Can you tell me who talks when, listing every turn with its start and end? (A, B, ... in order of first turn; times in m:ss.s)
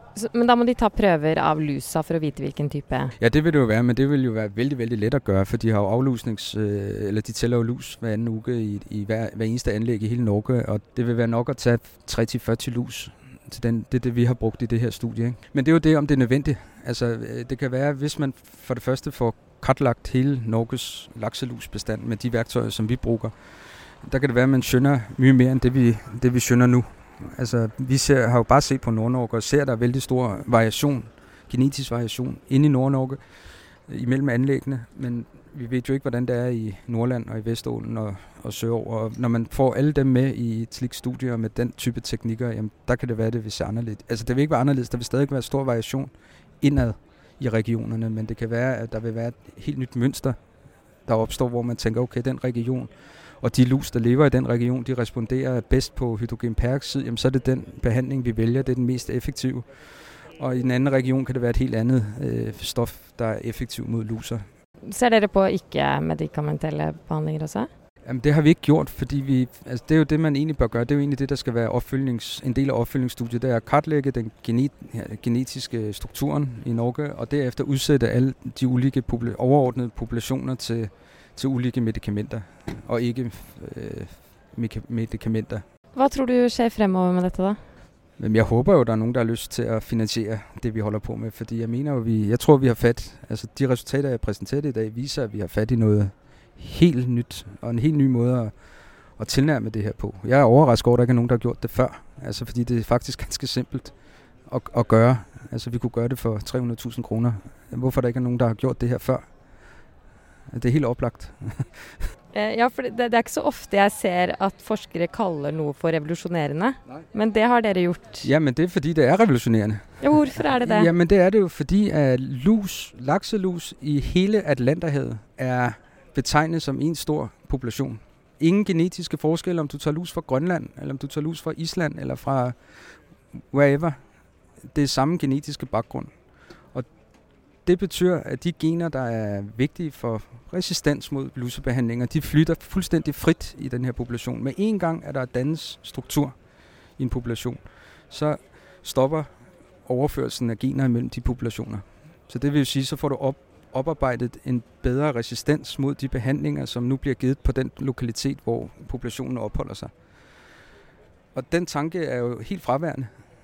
0:00.1-0:03.1 A
0:03.2-0:23.3 B
0:24.0-0:33.2 B
0:33.9-0:50.4 B
0:51.0-1:04.4 B
1:04.8-1:07.7 A
1:08.0-1:25.6 B
1:25.9-1:27.6 A
1:28.2-1:38.5 B
1:39.2-1:43.9 B
1:44.5-1:49.2 B
1:50.5-1:51.9 B
1:52.3-1:58.2 A
1:58.2-2:14.0 B
2:00.0-2:00.6 A
2:14.7-2:16.1 B
2:17.6-2:26.3 B
2:27.0-2:29.3 B
2:29.8-2:39.9 B
2:41.3-2:43.1 B